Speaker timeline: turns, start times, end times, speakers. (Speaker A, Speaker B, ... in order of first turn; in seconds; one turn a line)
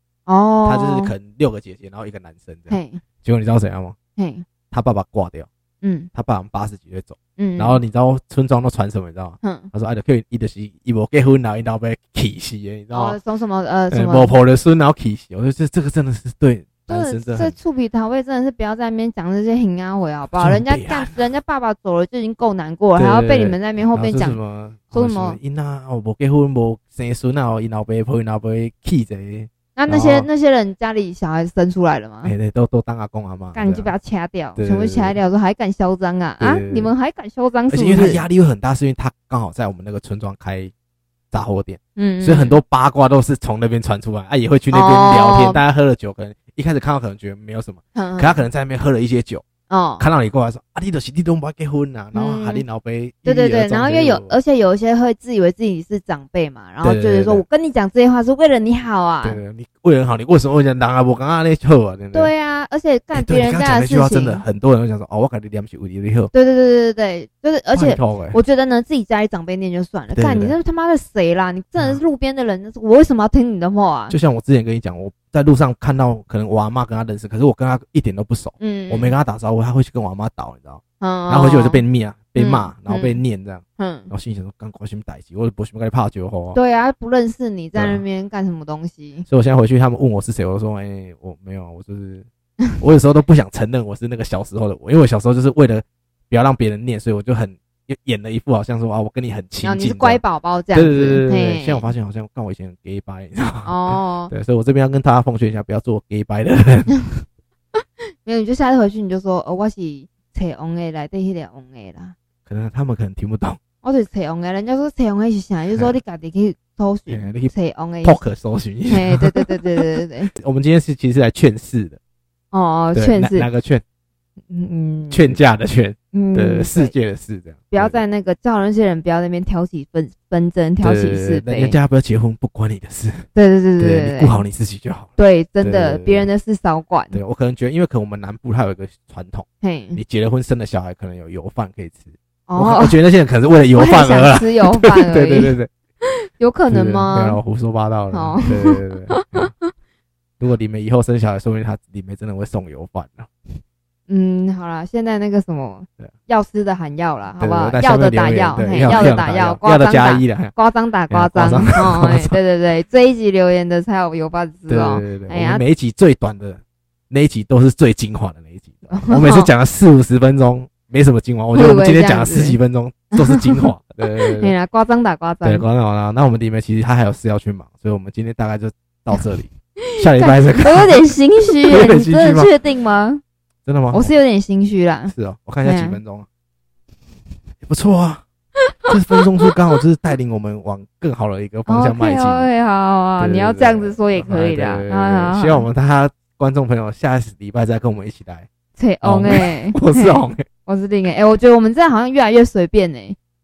Speaker A: 0.3-1.1
Speaker B: 0.6-4.0
Speaker A: 2.7-3.0
Speaker A: 4.2-4.5
Speaker B: 4.7-5.5
Speaker A: 5.8-6.1
Speaker B: 6.1-13.2
Speaker A: 7.4-7.8
Speaker A: 9.4-9.7
Speaker A: 12.9-14.3
Speaker B: 13.9-17.5
Speaker A: 16.9-24.4
Speaker B: 20.4-21.2
Speaker B: 23.0-30.3
Speaker A: 24.9-25.4
Speaker A: 29.8-32.3
Speaker B: 32.2-33.9
Speaker A: 33.5-38.2
Speaker B: 34.6-35.2
Speaker B: 36.4-36.9
Speaker B: 37.7-40.7
Speaker B: 41.3-49.5
Speaker A: 42.0-42.6
Speaker A: 44.7-45.6
Speaker A: 48.0-48.5
Speaker A: 49.7-50.0
Speaker B: 50.0-54.4
Speaker A: 52.1-52.6
Speaker A: 53.2-59.4
Speaker B: 56.8-57.4
Speaker B: 59.2-62.3
Speaker A: 62.1-64.4
Speaker B: 63.1-66.3
Speaker A: 66.3-74.2
Speaker B: 67.7-68.4
Speaker B: 70.1-70.5
Speaker B: 74.1-86.6
Speaker A: 78.6-79.2
Speaker A: 81.0-81.8
Speaker A: 82.4-83.2
Speaker A: 83.8-84.1
Speaker A: 86.5-89.2
Speaker B: 87.8-88.0
Speaker B: 89.2-92.3
Speaker B: 92.8-100.2
Speaker A: 99.6-101.9
Speaker B: 100.7-107.0
Speaker A: 103.7-104.3
Speaker A: 107.8-112.2
Speaker B: 112.5-113.6
Speaker A: 113.8-118.2
Speaker B: 117.1-119.6
Speaker A: 118.9-120.3
Speaker B: 120.3-122.0
Speaker A: 122.5-123.5
Speaker B: 122.9-123.8
Speaker A: 124.5-125.4
Speaker B: 125.1-128.0
Speaker A: 126.1-126.9
Speaker A: 127.7-131.8
Speaker B: 130.8-133.3
Speaker A: 133.3-134.4
Speaker B: 133.8-136.3
Speaker A: 135.2-137.2
Speaker B: 137.1-145.7
Speaker A: 139.6-140.0
Speaker A: 142.5-143.0
Speaker A: 143.7-145.6
Speaker A: 146.4-147.4
Speaker B: 146.7-149.5
Speaker A: 148.1-149.7
Speaker B: 150.4-153.3
Speaker A: 154.1-165.6
Speaker B: 157.4-160.5
Speaker B: 161.1-162.4
Speaker B: 164.7-174.5
Speaker A: 168.9-169.5
Speaker A: 171.5-172.6
Speaker A: 173.1-175.7
Speaker B: 175.4-181.0
Speaker A: 179.9-183.2
Speaker B: 181.7-182.5
Speaker B: 183.7-184.2
Speaker A: 183.9-186.0
Speaker B: 185.1-186.2
Speaker B: 187.6-188.2
Speaker B: 188.8-192.5
Speaker A: 191.7-195.7
Speaker B: 193.2-198.5
Speaker A: 198.8-203.2
Speaker B: 199.0-200.5